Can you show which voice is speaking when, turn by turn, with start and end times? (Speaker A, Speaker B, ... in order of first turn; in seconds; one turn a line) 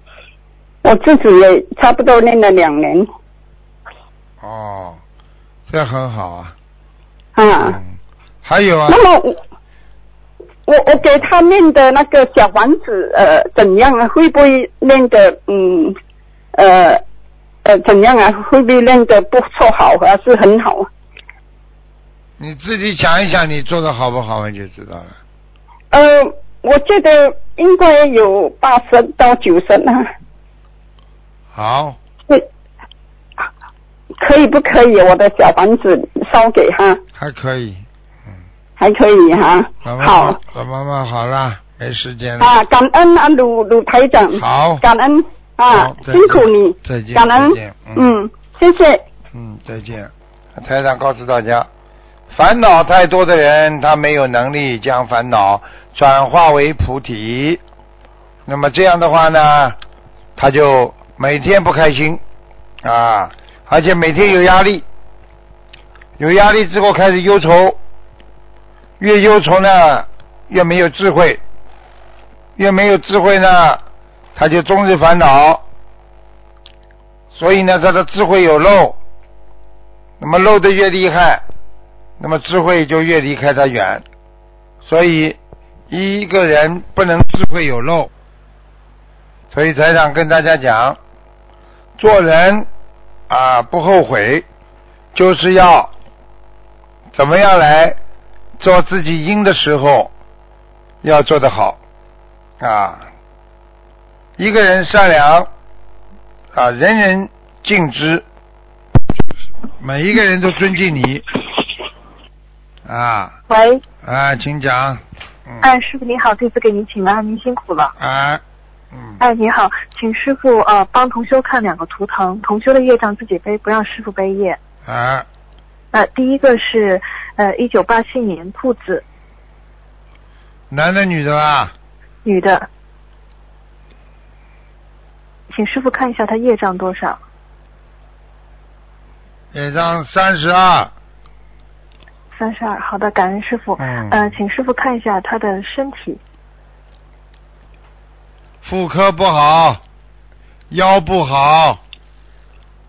Speaker A: 0.8-3.1
Speaker B: 4.4-5.0
Speaker B: 5.7-6.5
Speaker A: 7.4-7.8
Speaker B: 7.6-7.9
Speaker B: 8.4-9.0
Speaker A: 8.9-9.4
Speaker A: 10.7-16.0
Speaker A: 16.5-17.0
Speaker A: 17.6-20.9
Speaker B: 22.4-25.1
Speaker A: 25.9-30.1
Speaker B: 31.5-32.0
Speaker A: 34.2-37.0
Speaker B: 37.2-37.8
Speaker A: 38.8-40.4
Speaker B: 39.8-42.6
Speaker A: 42.4-49.0
Speaker B: 44.3-44.8
Speaker B: 45.7-48.1
Speaker B: 49.3-51.7
Speaker B: 52.3-57.6
Speaker B: 58.5-59.8
Speaker B: 60.4-62.2
Speaker B: 62.8-64.8
Speaker B: 66.2-67.8
Speaker B: 69.0-71.4
Speaker B: 72.6-73.8
Speaker B: 74.3-75.6
Speaker B: 77.3-79.0
Speaker B: 80.2-81.4
Speaker B: 82.2-84.0
Speaker B: 84.8-85.4
Speaker B: 85.9-88.1
Speaker B: 89.5-91.0
Speaker B: 92.0-92.7
Speaker B: 93.3-94.5
Speaker B: 95.1-95.9
Speaker B: 97.2-98.0
Speaker B: 98.6-100.1
Speaker B: 101.0-101.8
Speaker B: 102.6-103.1
Speaker B: 104.4-105.5
Speaker B: 106.5-108.2
Speaker B: 109.8-111.2
Speaker B: 112.8-113.3
Speaker B: 114.0-115.7
Speaker C: 115.6-117.9
Speaker B: 118.0-118.4
Speaker B: 118.9-119.2
Speaker C: 119.2-124.6
Speaker B: 124.8-125.3
Speaker C: 125.9-129.0
Speaker B: 130.7-131.7
Speaker C: 132.2-132.7
Speaker C: 135.5-137.2
Speaker B: 139.5-140.9
Speaker C: 142.3-146.2
Speaker B: 143.8-144.3
Speaker B: 148.6-149.8
Speaker B: 150.7-151.8